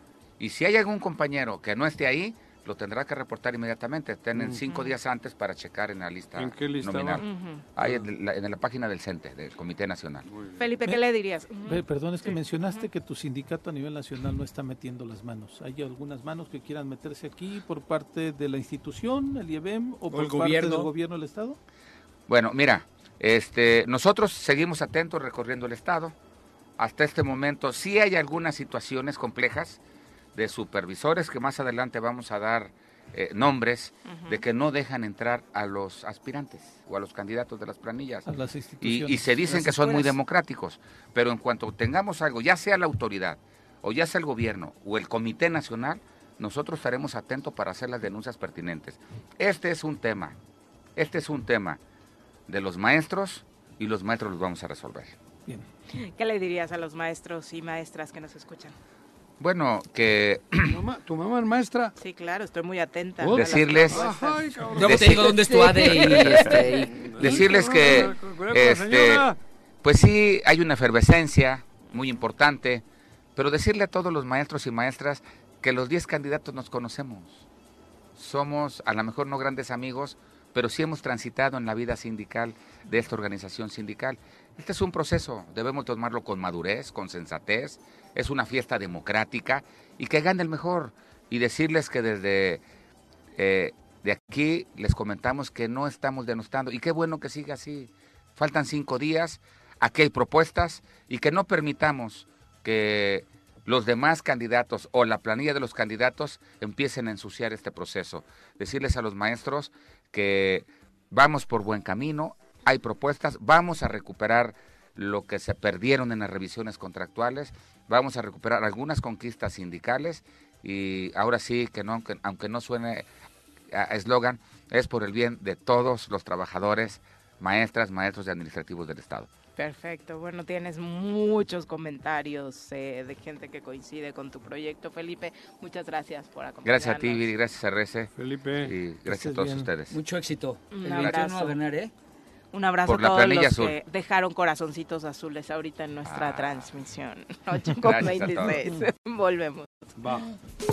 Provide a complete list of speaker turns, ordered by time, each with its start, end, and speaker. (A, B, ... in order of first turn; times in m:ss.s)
0:00.4-0:10.3 A
0:04.3-0:04.6 B
0:06.4-0:08.0 B
0:07.2-0:07.6 C
0:10.3-0:10.6 B
0:10.6-0:12.8 C
0:11.6-0:21.6 D
0:20.1-0:20.9 E
0:22.3-0:26.1 A
0:26.8-0:29.8 A
0:30.3-0:38.3 A
0:34.1-0:34.4 C
0:38.2-0:40.1 D
0:38.8-0:50.4 A
0:51.0-0:51.8 A
0:52.5-0:55.1 A
0:55.9-0:58.8 C
0:59.4-1:00.8 A
1:00.6-1:01.9 B
1:02.0-1:04.8 C
1:03.2-1:05.3 B
1:03.3-1:04.0 A
1:04.7-1:07.4 E
1:04.8-1:06.5 A
1:05.5-1:06.6 C
1:06.9-1:09.4 B
1:07.2-1:09.3 A
1:09.8-1:12.8 A
1:13.4-1:17.4 A
1:18.2-1:32.6 A
1:33.3-2:03.0 A
2:03.7-2:09.3 A
2:09.6-2:17.3 C
2:16.6-2:20.0 A
2:18.2-2:18.8 B
2:19.0-2:19.7 D
2:19.9-2:21.9 E
2:20.7-2:21.6 C
2:20.9-2:21.2 A
2:22.5-2:29.7 C
2:22.8-2:23.8 A
2:26.0-2:26.7 A
2:27.8-2:28.6 A
2:30.0-2:30.3 B